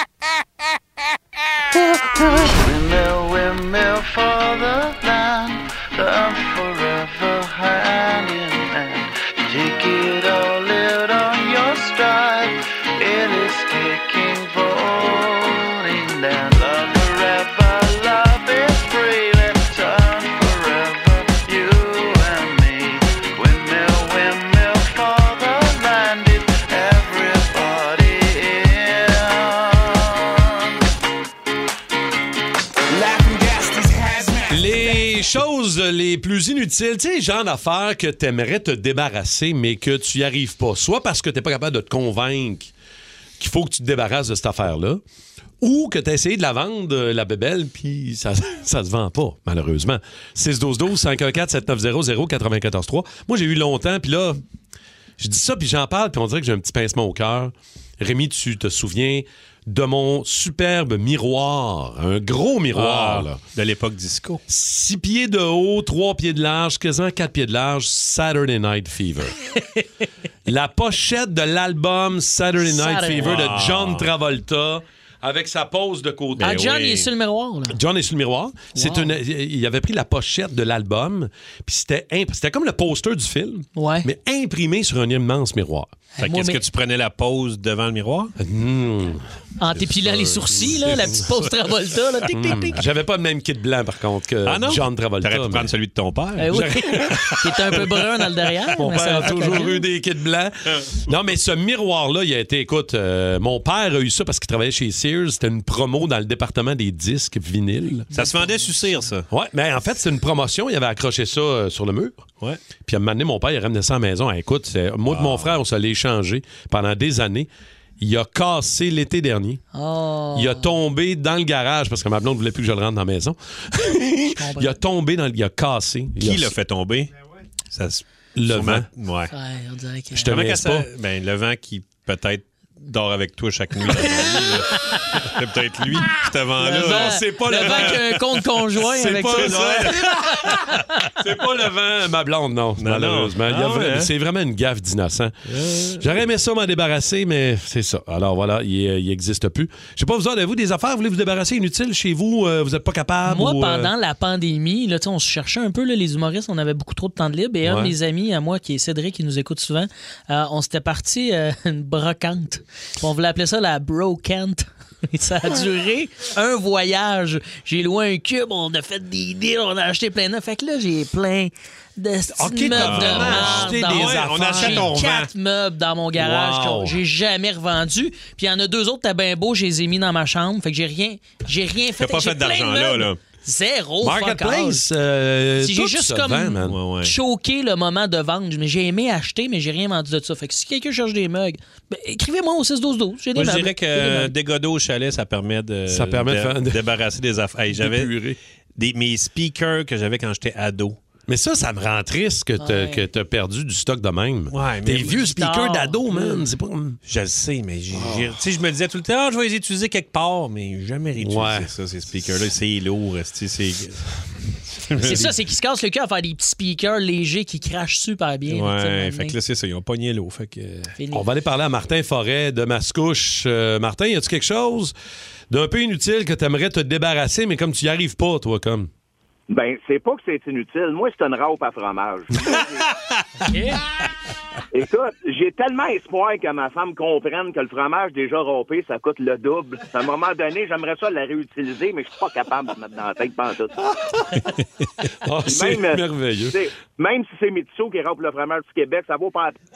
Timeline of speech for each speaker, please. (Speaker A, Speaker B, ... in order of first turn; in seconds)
Speaker A: 2.5-30.8, 32.9-34.4
Speaker B: 34.5-42.7, 43.4-45.0, 45.6-54.4, 55.2-63.4, 64.5-69.3, 70.5-76.5, 77.7-85.9, 88.4-89.3, 89.8-91.3, 92.3-95.7, 96.5-97.3, 98.8-108.1, 109.3-112.2, 112.8-117.5, 118.0-119.6, 120.3-126.5, 128.4-128.9, 130.1-130.9, 134.0-134.4, 136.7-140.6, 141.2-145.3, 146.0-153.9, 157.6-157.9, 172.3-175.0, 176.2-176.9, 184.0-186.8, 195.9-196.8, 197.7-198.4, 201.3-207.0, 207.9-208.4, 211.2-211.7, 221.1-224.9, 225.5-228.9, 245.2-246.6
Speaker C: 62.7-64.4, 73.2-74.1, 76.4-77.1, 86.2-88.3, 94.5-97.4, 108.1-109.3, 115.1-115.6, 126.2-127.1, 127.7-129.3, 130.3-138.0, 139.4-140.5, 142.8-144.1, 145.5-146.2, 172.7-175.3, 182.0-183.2, 186.6-187.1, 193.3-198.1, 198.8-201.0, 204.5-205.2, 207.1-214.1, 214.7-215.3, 218.5-220.9
Speaker D: 72.6-73.4, 76.4-77.8, 78.7-79.1, 83.8-84.1, 86.2-86.6, 89.6-92.8, 96.4-99.8, 108.1-108.6, 119.7-120.7, 124.4-124.8, 129.3-130.3, 136.6-140.7, 153.3-184.8, 185.6-194.3, 202.6-203.1, 205.1-206.4, 215.0-219.4, 221.0-221.3, 233.5-233.8
Speaker E: 229.5-232.8, 234.7-243.7, 245.5-249.6